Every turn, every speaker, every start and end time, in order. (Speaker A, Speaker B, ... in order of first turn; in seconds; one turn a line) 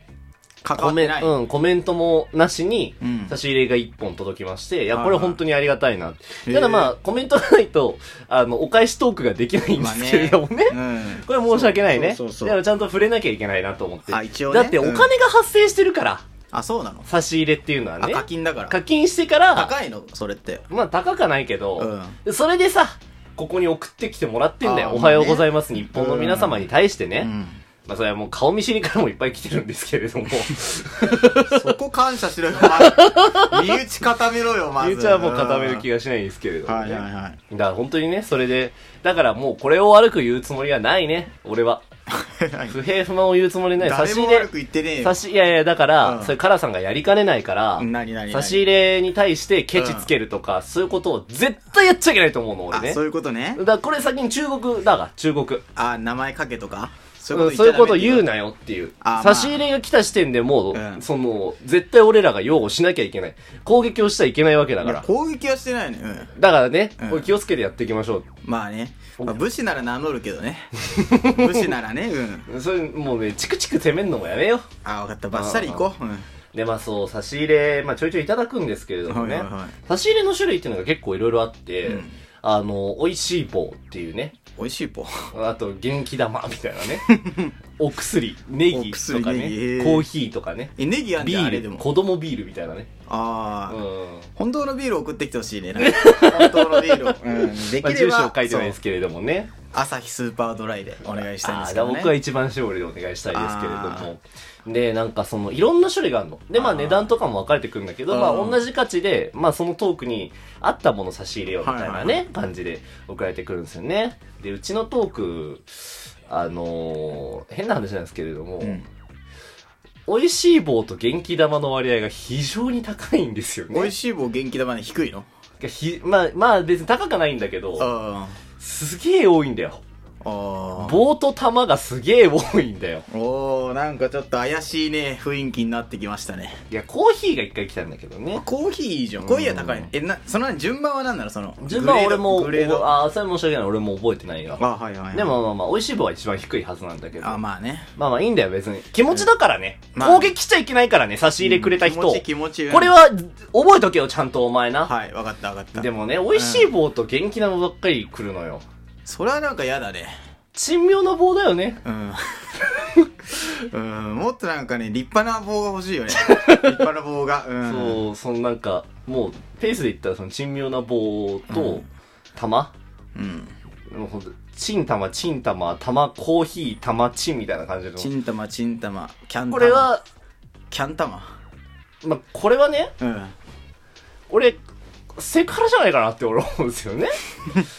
Speaker A: 0.6-1.3
Speaker B: 0.8-16.2
Speaker A: 3.0-3.4
Speaker A: 4.9-5.4
Speaker A: 6.5-6.9
Speaker A: 9.8-12.6
Speaker A: 14.1-15.1
Speaker A: 16.5-17.1
Speaker B: 17.1-19.7
Speaker A: 18.0-18.8
Speaker A: 19.6-20.6
Speaker B: 20.7-27.3
Speaker A: 21.8-22.2
Speaker A: 24.6-26.7
Speaker A: 27.2-27.6
Speaker B: 27.9-31.7
Speaker A: 31.4-35.9
Speaker B: 32.6-33.7
Speaker B: 34.8-41.9
Speaker A: 36.7-37.4
Speaker A: 42.1-42.8
Speaker B: 42.7-44.5
Speaker A: 43.8-45.2
Speaker B: 45.0-53.0
Speaker A: 46.0-46.4
Speaker A: 47.8-48.6
Speaker A: 49.8-50.1
Speaker A: 52.7-53.6
Speaker B: 53.6-55.6
Speaker A: 55.8-58.3
Speaker B: 57.3-65.1
Speaker A: 59.0-59.6
Speaker A: 60.7-61.0
Speaker A: 64.8-66.3
Speaker B: 66.4-68.3
Speaker A: 67.0-67.3
Speaker A: 68.4-70.7
Speaker B: 71.0-71.7
Speaker A: 71.3-72.5
Speaker B: 72.5-74.7
Speaker A: 74.8-76.2
Speaker B: 75.3-75.8
Speaker B: 76.5-84.4
Speaker A: 79.1-79.7
Speaker A: 81.8-82.1
Speaker A: 84.6-85.1
Speaker B: 85.3-87.1
Speaker A: 87.0-87.5
Speaker B: 87.8-92.9
Speaker A: 88.7-90.1
Speaker A: 90.8-91.8
Speaker A: 93.1-93.8
Speaker B: 93.7-94.3
Speaker A: 94.4-98.8
Speaker B: 95.8-99.5
Speaker A: 99.7-102.1
Speaker B: 101.1-115.6
Speaker A: 103.3-104.1
Speaker A: 106.5-107.1
Speaker A: 108.1-108.6
Speaker A: 111.6-112.2
Speaker B: 116.3-118.8
Speaker A: 118.6-118.9
Speaker B: 120.1-123.9
Speaker A: 123.7-125.3
Speaker B: 125.6-127.9
Speaker A: 127.8-128.4
Speaker B: 128.6-129.8
Speaker A: 130.2-131.0
Speaker B: 130.8-133.1
Speaker A: 133.1-136.6
Speaker B: 136.7-138.4
Speaker A: 138.3-142.9
Speaker B: 139.2-139.9
Speaker B: 141.6-147.4
Speaker A: 144.6-145.4
Speaker A: 147.2-147.9
Speaker B: 148.0-154.9
Speaker A: 149.9-150.3
Speaker A: 151.4-152.9
Speaker A: 154.8-156.7
Speaker B: 155.7-158.6
Speaker A: 159.1-160.1
Speaker B: 160.6-161.8
Speaker A: 161.8-162.4
Speaker A: 163.7-168.1
Speaker B: 166.2-166.8
Speaker B: 167.6-172.7
Speaker A: 171.5-171.8
Speaker A: 173.2-173.5
Speaker B: 173.9-178.1
Speaker A: 178.0-179.9
Speaker B: 179.5-180.0
Speaker A: 180.7-181.3
Speaker B: 182.0-182.9
Speaker A: 183.0-183.3
Speaker B: 184.3-184.6
Speaker B: 185.2-187.1